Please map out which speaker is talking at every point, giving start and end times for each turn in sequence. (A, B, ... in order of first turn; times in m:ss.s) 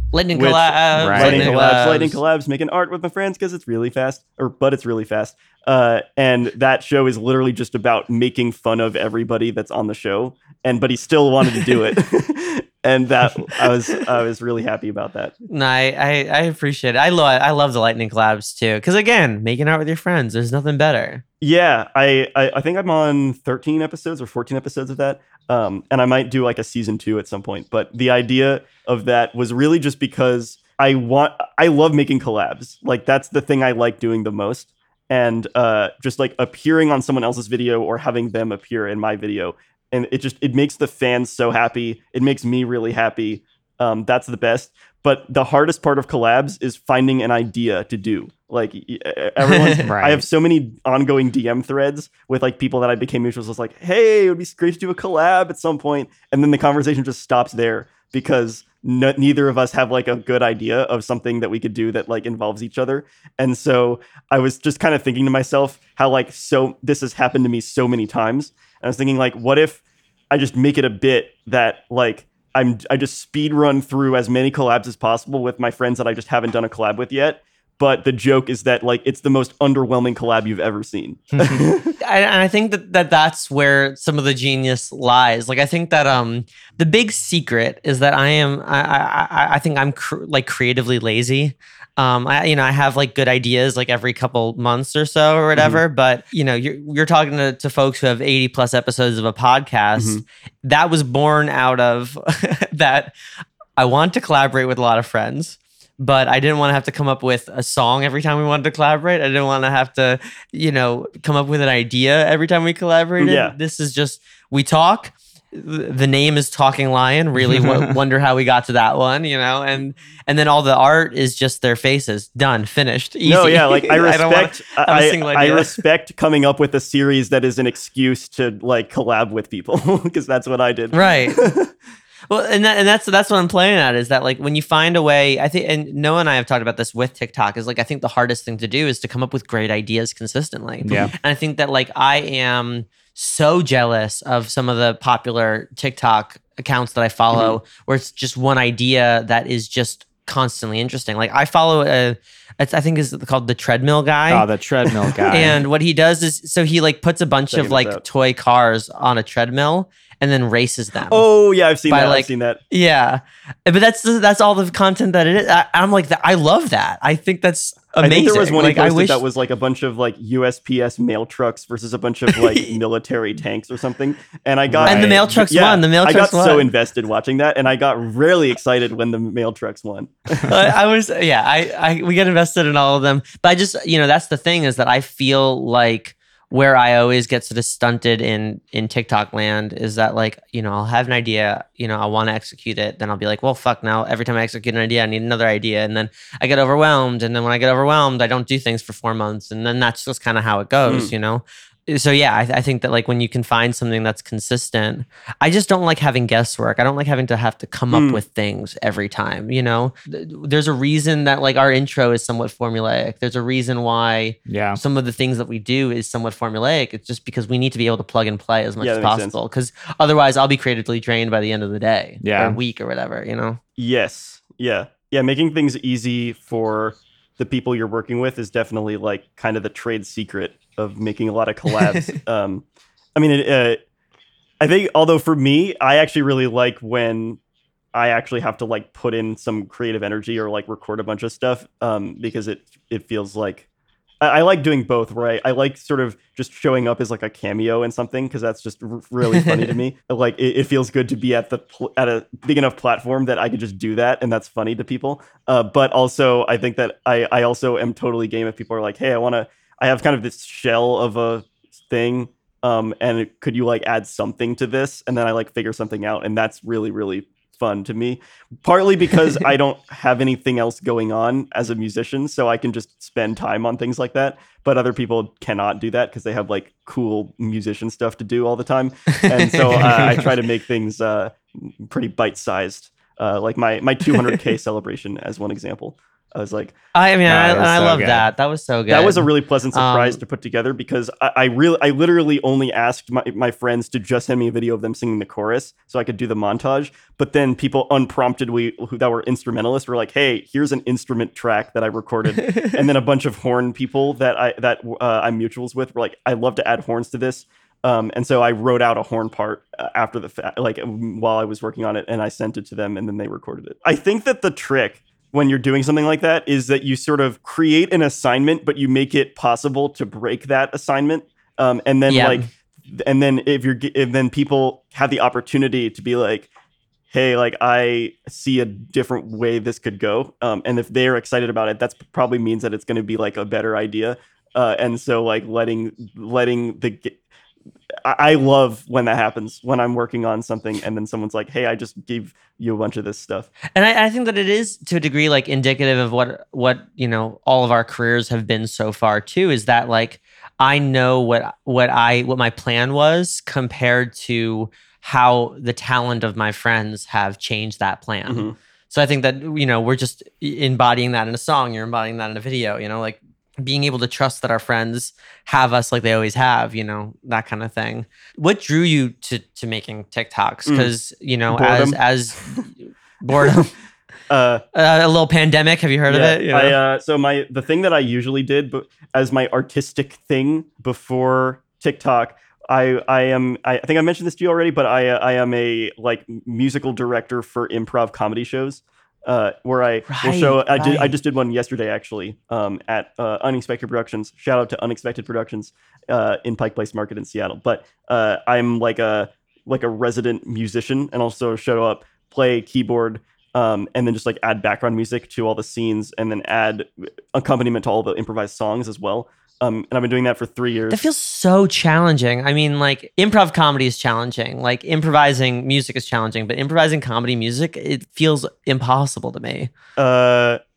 0:00.1-0:02.2 A
0:00.3-0:15.4 B
0:01.0-0:01.5 C
0:15.5-0:21.2 A
0:21.4-1:22.0 B
0:49.5-0:49.8 A
0:49.8-0:50.2 C
1:22.0-1:43.1 A
1:35.6-1:35.8 B
1:40.0-1:40.2 B
1:43.8-2:05.8 A
1:53.2-1:53.6 B
1:57.5-1:57.9 C
2:03.2-2:11.7 B
2:10.9-2:11.5 A
2:12.3-2:34.4 A
2:20.8-2:21.1 C
2:27.3-2:27.6 B
2:34.3-2:35.6 C
2:35.1-2:35.6 B
2:35.3-2:41.3 A
2:37.5-2:38.0 B
2:41.1-2:42.6 B
2:41.9-2:49.2 A
2:48.0-3:00.6 B
2:52.3-2:52.8 A
2:54.7-2:55.3 C
2:54.9-2:56.7 A
3:00.5-3:43.6 A
3:20.9-3:21.1 B
3:27.9-3:28.2 B
3:34.5-3:34.8 C
3:38.8-3:39.4 B
3:42.2-3:42.6 C
3:43.8-3:53.8 B
3:54.6-3:57.4 B
3:57.9-4:03.6 B
4:04.2-4:46.8 B
4:09.3-4:09.6 A
4:39.1-4:40.0 A
4:39.9-4:40.2 C
4:46.9-4:50.2 A
4:47.3-4:48.3 C
4:48.9-5:26.5 B
5:02.5-5:02.7 A
5:22.1-5:22.5 A
5:27.1-5:37.2 B
5:38.0-5:43.5 B
5:43.8-6:13.7 A
5:58.3-5:58.6 B
6:10.7-6:10.9 B
6:11.5-6:12.0 B
6:13.3-6:13.7 B
6:14.3-6:14.6 B
6:14.7-6:16.8 A
6:16.1-6:51.0 B
6:30.1-6:31.2 A
6:50.9-6:59.7 A
7:00.0-7:00.6 B